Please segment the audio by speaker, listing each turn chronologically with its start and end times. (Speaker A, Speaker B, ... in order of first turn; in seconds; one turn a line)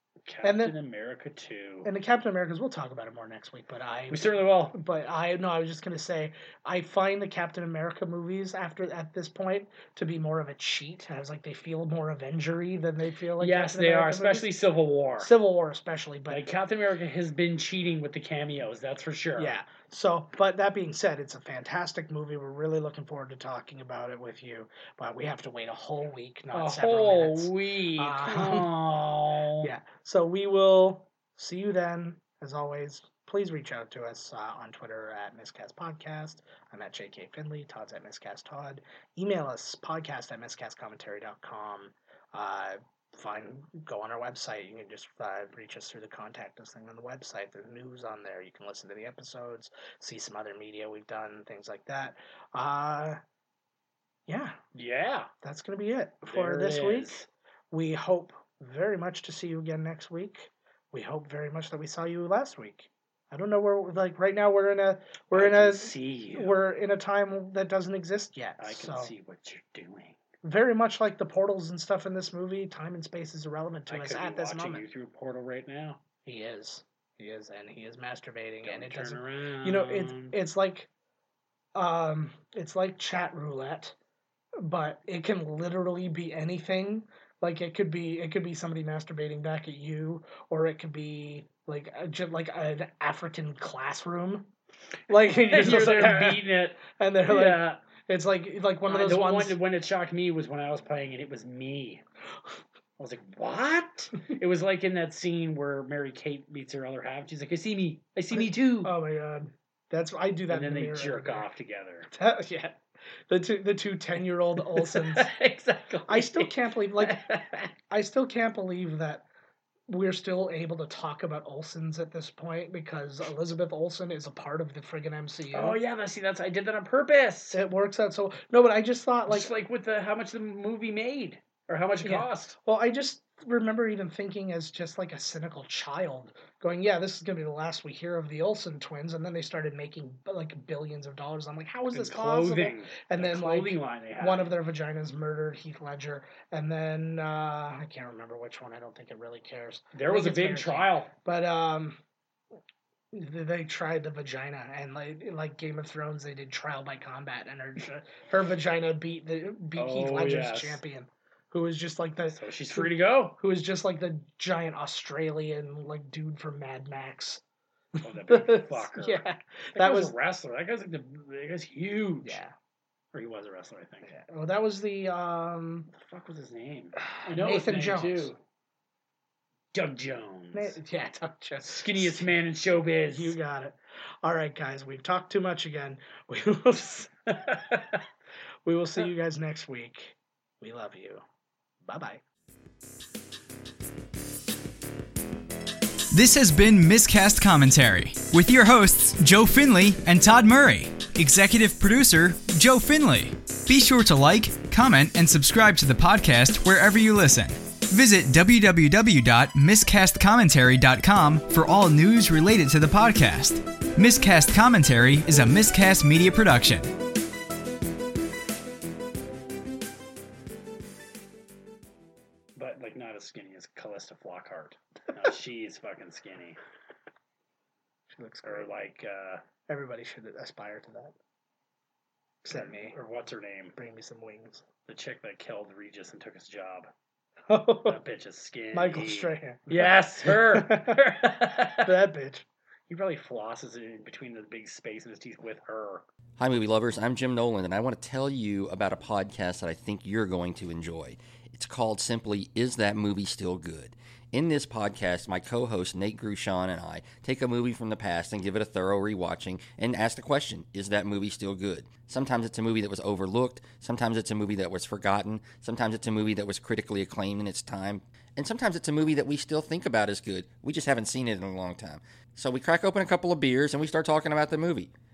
Speaker A: 0.3-1.9
Speaker B: 0.4-0.8
Speaker B: 1.8-14.5
Speaker A: 4.1-4.8
Speaker A: 13.4-15.3
Speaker B: 15.2-16.5
Speaker A: 16.3-19.6
Speaker B: 19.4-28.7
Speaker A: 26.5-29.7
Speaker B: 29.6-53.2
Speaker B: 54.3-54.6
Speaker A: 54.7-55.3
Speaker B: 55.4-57.2
Speaker A: 56.3-57.3
Speaker B: 57.7-69.1
Speaker A: 65.3-66.6
Speaker A: 68.6-70.2
Speaker B: 70.4-74.8
Speaker A: 73.9-76.0
Speaker B: 76.2-80.9
Speaker A: 78.6-80.4
Speaker B: 81.8-84.0
Speaker B: 84.6-94.5
Speaker B: 95.1-99.6
Speaker A: 95.5-97.8
Speaker A: 98.9-102.0
Speaker A: 103.0-108.9
Speaker B: 108.3-111.5
Speaker A: 110.5-112.1
Speaker B: 112.1-115.3
Speaker A: 114.6-117.7
Speaker B: 116.1-117.2
Speaker B: 117.9-119.3
Speaker B: 119.9-125.8
Speaker A: 125.5-127.6
Speaker B: 127.5-129.5
Speaker A: 129.3-132.6
Speaker B: 132.0-152.0
Speaker A: 141.9-144.5
Speaker A: 149.9-151.1
Speaker B: 153.1-167.4
Speaker A: 159.8-160.8
Speaker A: 162.3-163.4
Speaker A: 168.0-169.2
Speaker B: 168.3-170.1
Speaker A: 169.8-172.4
Speaker B: 172.2-172.5
Speaker A: 173.1-174.1
Speaker B: 174.1-175.9
Speaker A: 175.9-178.4
Speaker B: 177.1-178.3
Speaker A: 179.7-180.8
Speaker B: 180.5-182.3
Speaker A: 181.6-183.4
Speaker B: 183.1-187.3
Speaker A: 187.4-188.0
Speaker B: 188.7-191.2
Speaker B: 191.8-192.2
Speaker C: 196.1-216.8
Speaker A: 222.6-226.6
Speaker B: 228.1-228.7
Speaker A: 228.4-229.4
Speaker B: 229.7-231.1
Speaker B: 232.4-232.9
Speaker A: 232.5-233.8
Speaker B: 233.8-234.6
Speaker A: 234.9-236.9
Speaker B: 237.5-238.0
Speaker A: 237.8-241.9
Speaker B: 238.7-242.4
Speaker A: 242.9-246.1
Speaker D: 246.4-274.9